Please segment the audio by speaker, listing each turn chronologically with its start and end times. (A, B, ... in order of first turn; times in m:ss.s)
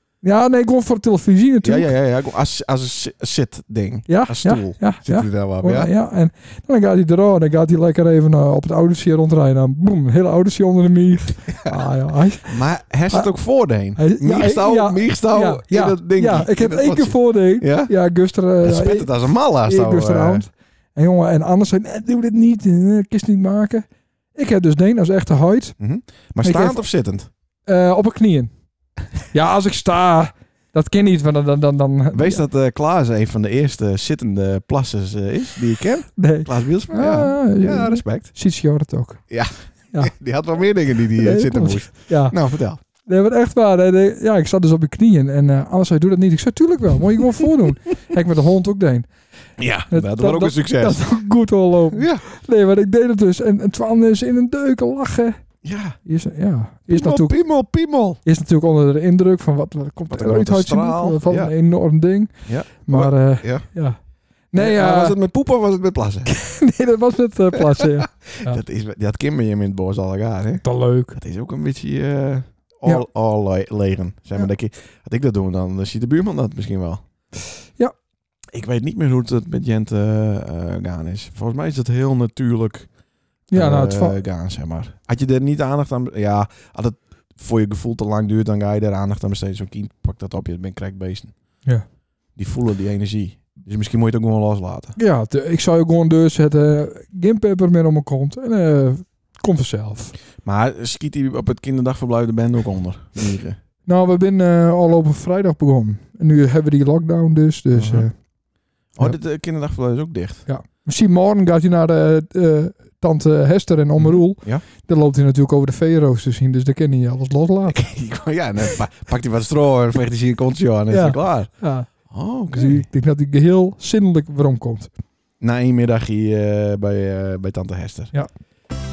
0:00.2-0:01.9 A
0:01.6-0:05.9 B
0:04.1-0:12.6 A
0:12.5-0:17.9 B
0:14.0-0:19.1 A
0:18.6-0:20.4 B
0:19.6-0:25.8 A
0:25.8-0:27.3 B
0:26.4-0:26.8 A
0:27.6-0:28.5 A
0:29.3-0:32.4 A
0:32.1-0:38.3 B
0:36.2-0:39.3 A
0:39.3-0:42.8 B
0:41.2-0:49.1 A
0:49.6-0:51.0 B
0:49.9-0:55.4 A
0:51.9-0:52.2 B
0:55.6-0:56.0 B
0:56.0-0:57.4 A
0:56.9-0:58.2 B
0:58.2-1:04.0 A
1:00.1-1:01.5 B
1:02.4-1:03.7 B
1:04.5-1:05.1 A
1:04.5-1:06.3 B
1:06.3-1:08.6 A
1:07.7-1:17.0 B
1:10.6-1:11.1 A
1:18.5-1:22.9 B
1:23.5-1:24.2 A
1:23.5-1:31.3 B
1:32.4-1:35.0 B
1:35.0-1:40.1 A
1:40.4-1:43.6 B
1:43.8-1:48.1 A
1:47.7-1:48.1 B
1:49.0-1:50.4 B
1:50.5-1:57.9 A
1:54.0-1:54.6 B
1:57.7-2:01.5 B
2:00.9-2:04.9 A
2:02.1-2:02.9 B
2:05.4-2:08.1 B